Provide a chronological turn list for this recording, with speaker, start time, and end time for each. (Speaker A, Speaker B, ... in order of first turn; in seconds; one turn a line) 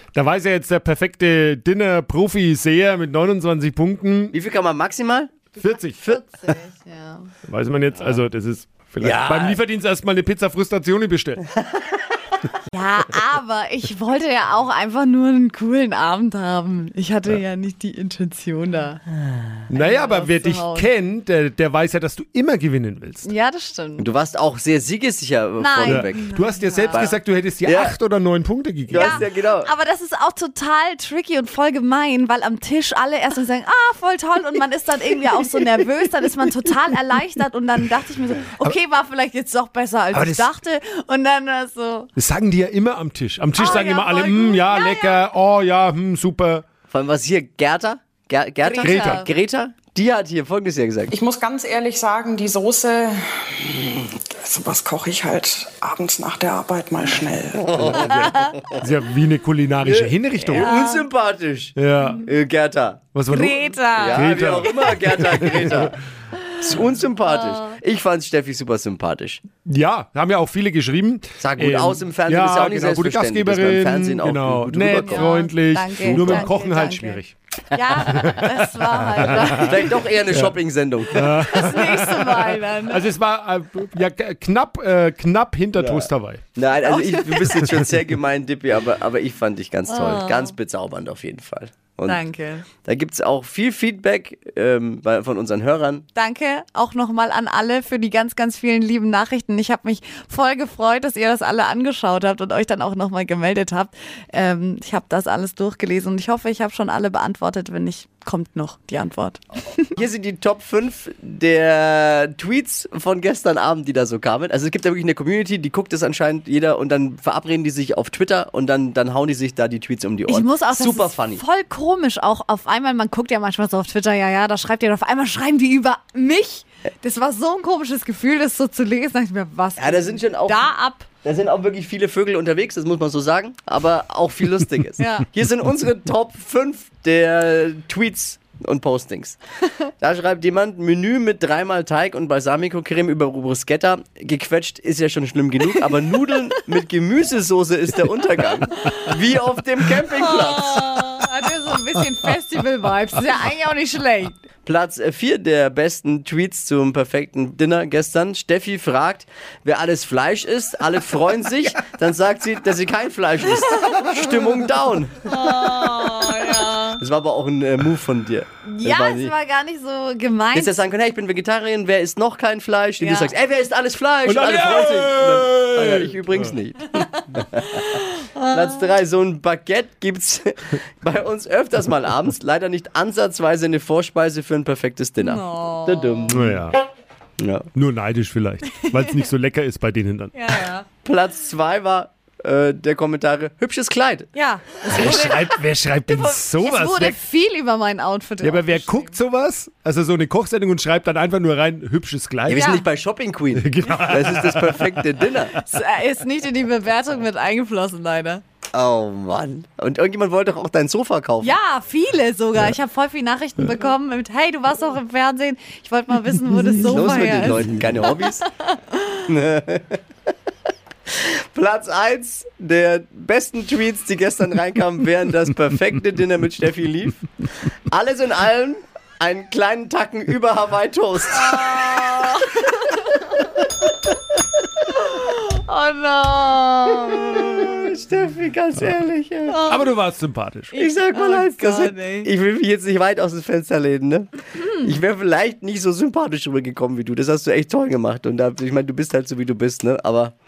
Speaker A: 0.1-4.3
Speaker B: 4.3-5.4
Speaker A: 5.6-6.0
Speaker C: 5.7-7.3
Speaker A: 7.4-11.4
Speaker B: 9.0-9.6
Speaker C: 12.7-19.0
Speaker A: 19.7-23.3
Speaker C: 19.7-20.9
Speaker C: 23.2-24.1
Speaker B: 24.0-26.3
Speaker C: 25.6-27.1
Speaker A: 25.8-29.1
Speaker B: 26.9-28.0
Speaker B: 28.9-29.7
Speaker C: 28.9-42.1
Speaker A: 40.1-40.5
Speaker A: 42.1-46.6
Speaker C: 43.5-45.2
Speaker B: 46.9-51.1
Speaker C: 48.6-49.3
Speaker A: 48.8-49.2
Speaker D: 51.1-53.2
Speaker D: 54.4-58.1
Speaker B: 57.6-58.8
Speaker C: 58.2-58.5
Speaker A: 58.8-60.5
Speaker B: 59.8-63.1
Speaker C: 60.5-61.1
Speaker A: 61.8-62.1
Speaker A: 63.1-65.8
Speaker C: 63.3-65.0
Speaker B: 64.0-65.9
Speaker B: 66.6-69.4
Speaker C: 67.2-67.7
Speaker A: 69.7-77.3
Speaker B: 71.4-75.5
Speaker C: 75.0-77.2
Speaker B: 76.0-76.5
Speaker C: 77.7-80.1
Speaker A: 79.2-79.6
Speaker B: 79.4-81.3
Speaker A: 81.2-82.3
Speaker C: 81.3-83.1
Speaker A: 82.9-86.4
Speaker B: 85.8-92.2
Speaker C: 86.9-87.5
Speaker C: 89.9-90.5
Speaker C: 92.1-92.6
Speaker B: 92.8-96.0
Speaker C: 96.1-109.9
Speaker B: 110.0-121.4
Speaker C: 120.3-131.1
Speaker B: 129.8-130.6
Speaker B: 131.2-139.4
Speaker C: 135.0-135.3
Speaker B: 140.0-151.0
Speaker C: 150.2-154.4
Speaker B: 154.7-165.2
Speaker C: 165.2-167.0
Speaker B: 167.0-169.3
Speaker C: 168.6-170.8
Speaker B: 170.5-177.6
Speaker C: 173.0-173.3
Speaker A: 174.3-176.2
Speaker C: 177.1-178.8
Speaker B: 178.5-186.7
Speaker C: 185.2-186.3
Speaker A: 186.3-186.8
Speaker B: 187.4-187.7
Speaker A: 187.7-190.5
Speaker C: 190.3-190.8
Speaker B: 191.0-194.3
Speaker C: 194.3-195.6
Speaker A: 195.0-197.2
Speaker C: 196.1-199.2
Speaker A: 198.4-202.6
Speaker B: 202.4-205.5
Speaker C: 202.6-202.9
Speaker A: 203.5-204.8
Speaker C: 205.6-208.4
Speaker B: 208.7-211.5
Speaker C: 211.4-218.1
Speaker B: 216.8-218.4
Speaker C: 218.7-219.2
Speaker B: 219.3-220.0
Speaker B: 221.1-227.2
Speaker B: 227.9-231.6
Speaker C: 231.3-233.0
Speaker C: 235.1-237.2
Speaker B: 237.1-239.6
Speaker C: 239.5-239.9
Speaker A: 239.7-240.7
Speaker C: 240.7-242.3
Speaker B: 240.8-250.3